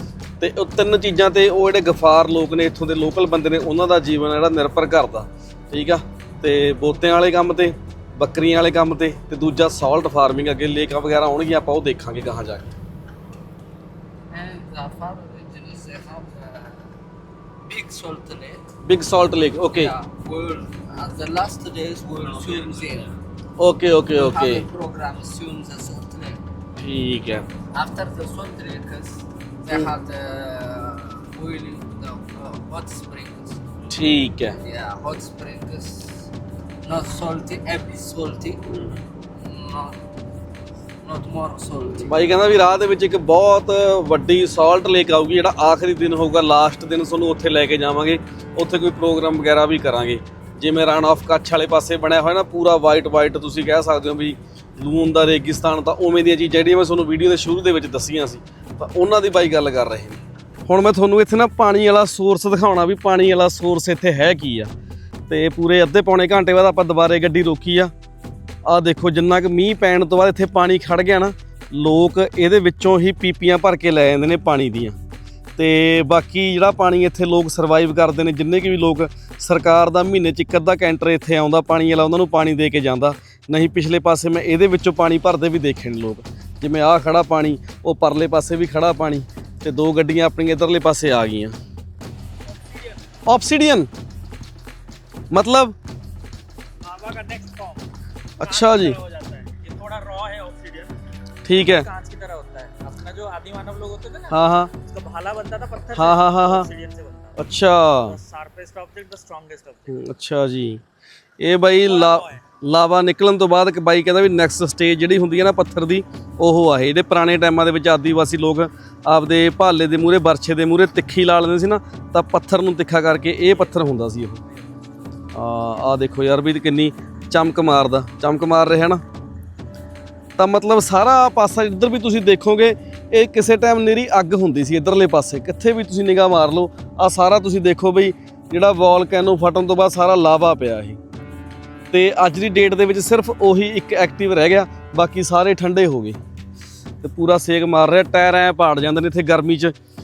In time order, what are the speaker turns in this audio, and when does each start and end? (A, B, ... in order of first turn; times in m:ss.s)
0:00.4-0:12.7 A
0:14.3-0:16.9 B
0:17.6-0:18.6 B
0:18.8-0:19.9 A
0:19.7-0:23.1 B
0:23.6-0:24.6 A
0:24.1-0:26.4 B
0:26.8-0:27.4 A
0:27.7-0:33.6 B
0:33.9-0:34.6 A
0:34.6-0:36.3 B
0:36.8-0:38.7 B
0:39.3-0:40.0 B
0:41.0-0:42.4 B
0:42.0-1:04.7 A
1:05.3-1:07.9 A
1:08.6-1:15.0 A
1:15.6-1:31.6 A
1:32.5-1:33.0 C
1:33.3-1:33.9 A
1:35.3-1:35.8 A
1:36.8-1:37.9 C
1:38.4-1:39.0 A
1:38.4-1:40.9 C
1:41.4-1:41.9 A
1:41.6-1:47.4 C
1:44.3-1:44.7 A
1:46.0-1:46.7 A
1:47.4-1:48.2 A
1:48.0-1:50.0 C
1:49.9-1:50.8 A
1:51.4-2:04.4 A
1:51.8-1:52.4 C
2:05.3-2:09.0 A
2:10.4-2:21.0 A
2:21.9-2:26.2 A
2:27.0-2:29.7 A